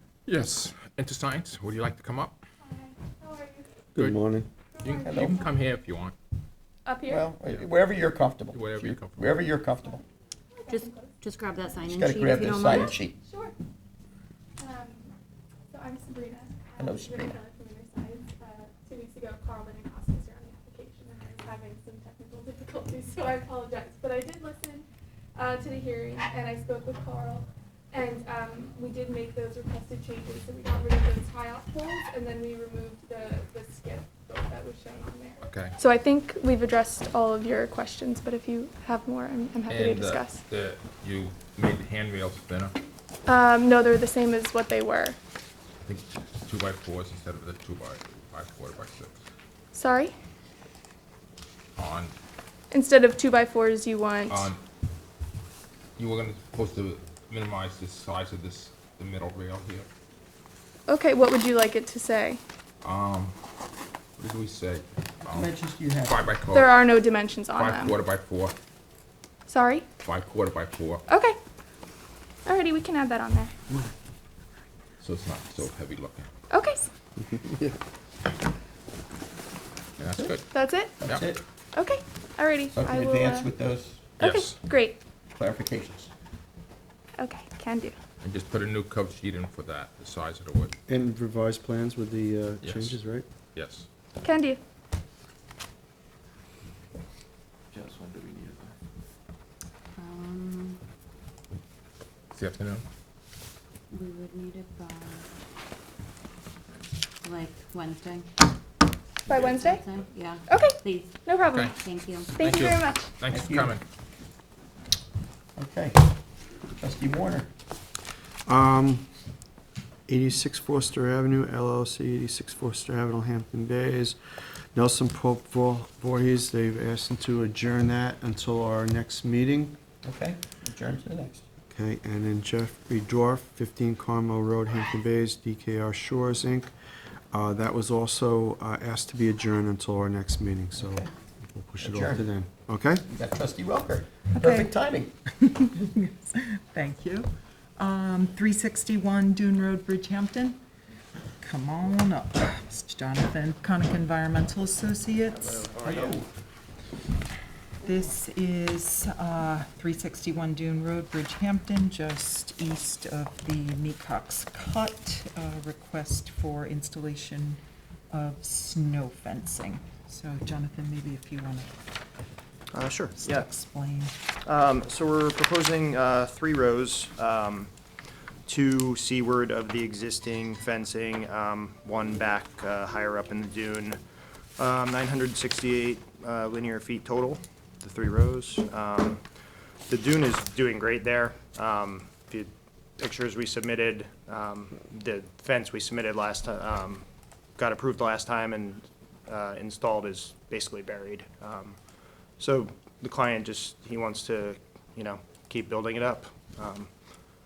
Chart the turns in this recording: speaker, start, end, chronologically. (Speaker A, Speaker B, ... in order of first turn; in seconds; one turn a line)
Speaker A: 0.2-2.4
Speaker B: 2.6-3.7
Speaker C: 4.0-4.5
Speaker B: 4.7-5.6
Speaker A: 4.8-6.1
Speaker D: 5.0-5.4
Speaker B: 6.8-7.3
Speaker D: 7.1-10.0
Speaker A: 8.5-9.2
Speaker B: 10.5-11.1
Speaker E: 10.7-13.0
Speaker D: 11.9-13.2
Speaker B: 12.8-13.5
Speaker B: 14.6-15.1
Speaker B: 15.7-24.8
Speaker D: 16.8-17.4
Speaker B: 25.4-40.4
Speaker A: 35.4-35.8
Speaker A: 39.7-42.7
Speaker B: 43.3-45.2
Speaker A: 45.8-49.2
Speaker B: 49.7-50.1
Speaker A: 51.8-52.1
Speaker B: 52.7-54.5
Speaker A: 54.3-54.6
Speaker A: 56.0-59.9
Speaker B: 60.9-62.4
Speaker A: 62.8-63.3
Speaker A: 64.2-65.5
Speaker D: 65.2-66.3
Speaker A: 66.0-66.9
Speaker B: 66.5-67.9
Speaker A: 67.5-68.5
Speaker B: 69.5-69.9
Speaker A: 70.0-71.0
Speaker B: 71.1-71.4
Speaker B: 72.5-73.5
Speaker A: 75.0-76.3
Speaker B: 76.5-76.9
Speaker C: 77.3-77.7
Speaker A: 80.0-80.5
Speaker D: 80.0-80.4
Speaker B: 80.5-81.0
Speaker D: 81.0-81.4
Speaker A: 81.0-81.3
Speaker B: 81.7-83.5
Speaker D: 82.7-84.1
Speaker A: 84.2-84.6
Speaker B: 84.2-85.0
Speaker D: 85.3-86.1
Speaker B: 87.2-87.9
Speaker A: 88.2-90.7
Speaker C: 90.9-93.2
Speaker A: 92.6-93.0
Speaker A: 93.5-93.9
Speaker B: 94.2-94.6
Speaker E: 100.0-100.8
Speaker A: 102.3-102.8
Speaker E: 103.9-105.3
Speaker E: 107.2-108.3
Speaker B: 109.3-109.8
Speaker E: 109.3-112.3
Speaker B: 110.5-111.6
Speaker A: 111.5-111.8
Speaker A: 112.3-113.8
Speaker B: 112.4-113.1
Speaker D: 113.3-113.8
Speaker D: 115.5-116.0
Speaker D: 116.8-117.5
Speaker C: 118.5-119.1
Speaker C: 120.1-129.8
Speaker D: 130.0-131.4
Speaker C: 131.7-136.7
Speaker C: 137.3-143.0
Speaker D: 140.8-141.1
Speaker D: 141.8-142.2
Speaker D: 143.1-145.1
Speaker F: 144.3-144.7
Speaker F: 145.4-150.6
Speaker F: 151.4-155.6
Speaker D: 155.8-156.2
Speaker F: 157.8-167.6
Speaker F: 168.1-171.7
Speaker G: 172.7-173.2
Speaker F: 173.2-174.1
Speaker G: 174.4-177.7
Speaker G: 178.4-184.0
Speaker G: 184.6-189.2
Speaker G: 189.9-197.0
Speaker G: 197.6-201.8
Speaker G: 202.4-206.9